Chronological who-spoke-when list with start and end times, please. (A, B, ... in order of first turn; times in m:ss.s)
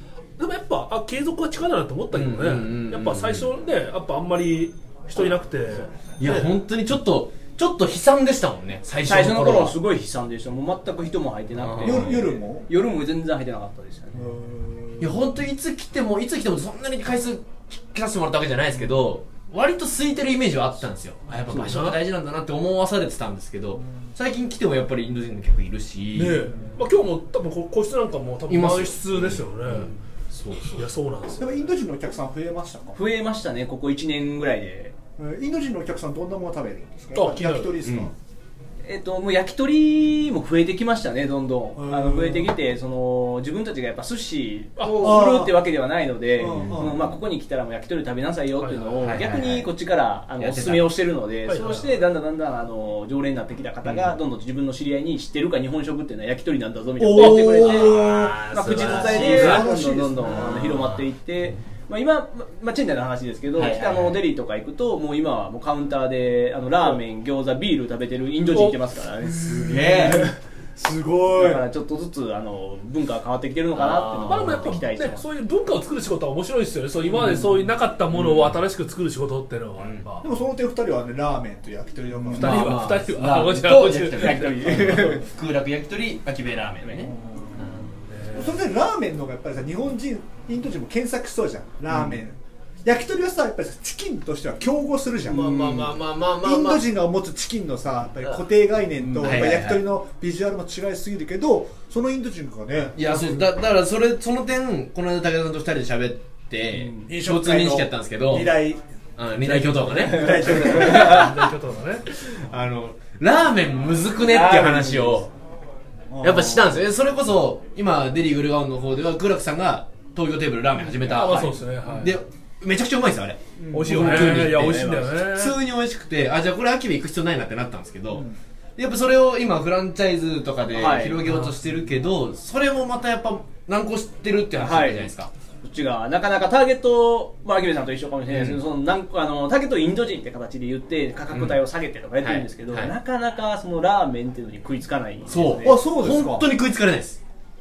0:00.4-0:05.9 A
0:02.1-0:03.5 B
0:05.7-0:06.4 C
0:06.2-0:09.8 B
0:09.1-0:14.4 C
0:11.6-0:12.2 B
0:11.8-0:12.6 D
0:14.2-0:15.2 D
0:15.0-0:26.5 B
0:21.5-0:22.0 A
0:26.1-0:29.9 A
0:28.5-0:30.9 B
0:30.8-0:31.5 A
0:31.4-0:33.0 D
0:33.0-0:35.0 C
0:35.2-0:38.2 D
0:37.1-0:37.7 A
0:37.8-0:38.1 B
0:38.8-1:10.3 C
0:41.8-0:42.5 D
0:44.8-0:45.2 A
0:45.0-0:45.6 D
0:46.4-0:47.0 D
0:46.5-0:47.0 B
0:48.6-0:49.0 A
0:49.0-0:49.7 B
0:50.4-0:50.9 B
0:51.5-0:52.0 A
0:53.8-0:54.2 B
0:57.0-1:00.7 D
0:57.1-0:59.7 B
0:59.2-0:59.6 A
1:00.2-1:01.1 B
1:03.6-1:04.2 B
1:08.5-1:08.8 A
1:09.4-1:10.3 B
1:09.4-1:11.6 D
1:11.4-1:15.2 C
1:13.8-1:14.8 B
1:14.3-1:20.2 A
1:17.2-1:17.5 B
1:18.1-1:18.6 B
1:19.8-1:20.0 B
1:20.2-1:22.8 D
1:22.3-1:27.7 B
1:22.3-1:24.7 A
1:23.9-1:25.2 C
1:27.0-1:27.7 D
1:28.1-1:28.5 A
1:28.3-1:43.5 D
1:31.9-1:32.2 B
1:35.3-1:36.8 B
1:39.0-1:39.6 C
1:39.2-1:39.8 B
1:43.0-1:48.6 B
1:46.8-1:47.1 C
1:47.0-1:48.8 D
1:49.2-1:51.2 B
1:49.3-1:51.4 D
1:50.1-1:51.3 C
1:50.5-1:52.1 A
1:52.1-1:55.3 B
1:54.2-1:55.3 C
1:56.1-1:56.8 D
1:56.2-2:15.3 B
2:01.0-2:02.2 A
2:03.6-2:04.2 D
2:03.7-2:05.6 A
2:03.9-2:05.1 C
2:10.7-2:11.2 C
2:11.2-2:11.5 A
2:14.6-2:15.1 C
2:15.6-2:25.8 C
2:18.3-2:18.6 B
2:21.3-2:21.6 B
2:22.2-2:22.9 B
2:25.3-2:27.2 B
2:25.6-2:26.5 D